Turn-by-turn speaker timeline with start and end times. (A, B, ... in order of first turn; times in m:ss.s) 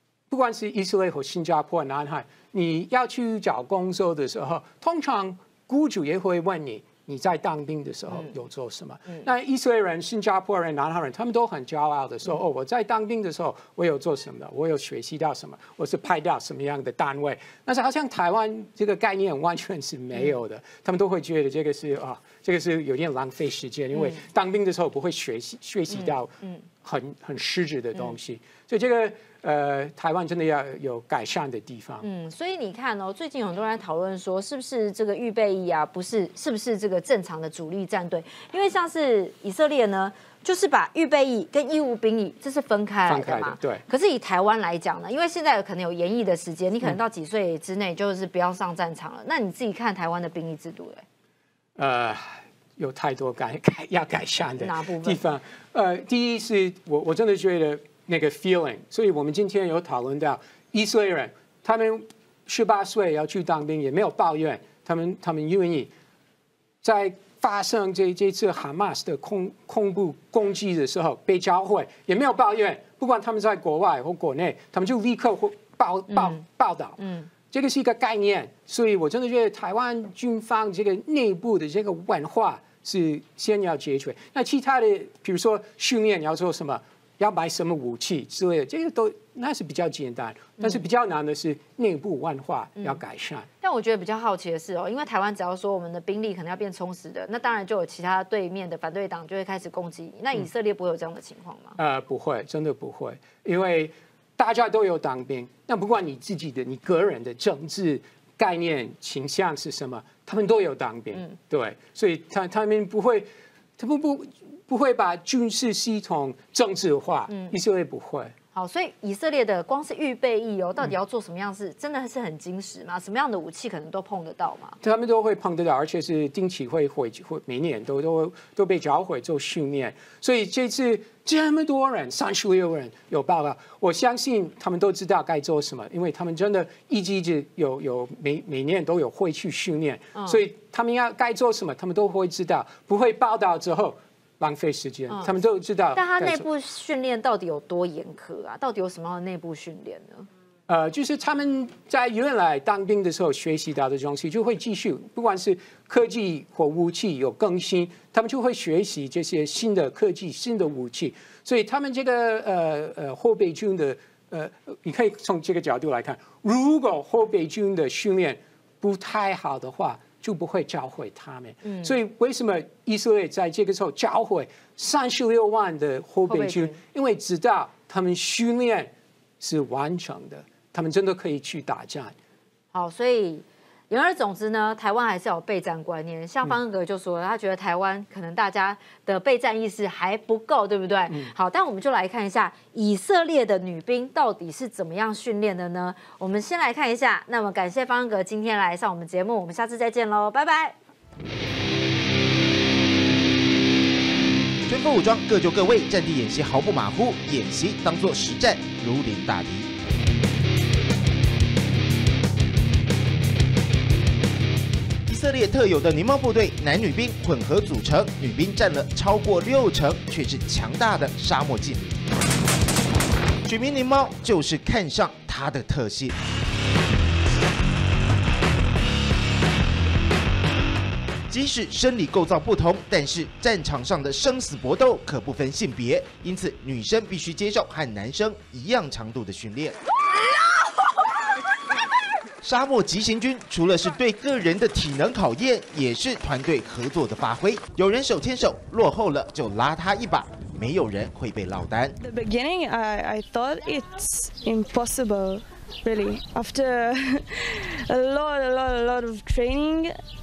0:00.3-0:32.0 A
0:23.9-0:24.2 B
0:25.9-0:26.6 B
0:32.0-0:51.0 B
0:43.1-0:43.8 A
0:51.8-1:05.9 A
0:54.6-0:55.2 B
1:06.8-1:17.0 A
1:16.1-1:16.4 B
1:17.0-1:17.3 B
1:17.5-1:33.5 A
1:30.6-1:30.9 B
1:33.6-1:41.8 B
1:41.8-1:58.3 A
1:57.3-1:57.5 B
1:58.5-2:04.8 B
2:04.8-2:26.4 A
2:20.1-2:20.4 B
2:25.1-2:25.4 B
2:25.9-2:30.3 B
2:30.7-3:02.1 A
2:51.6-2:52.0 B
2:56.3-2:56.8 B
3:02.7-3:20.8 B
3:24.7-3:29.7 C
3:35.1-3:41.9 C
3:43.4-3:46.2 C
3:51.3-3:59.7 C
4:02.4-4:11.9 C
4:12.0-4:20.0 D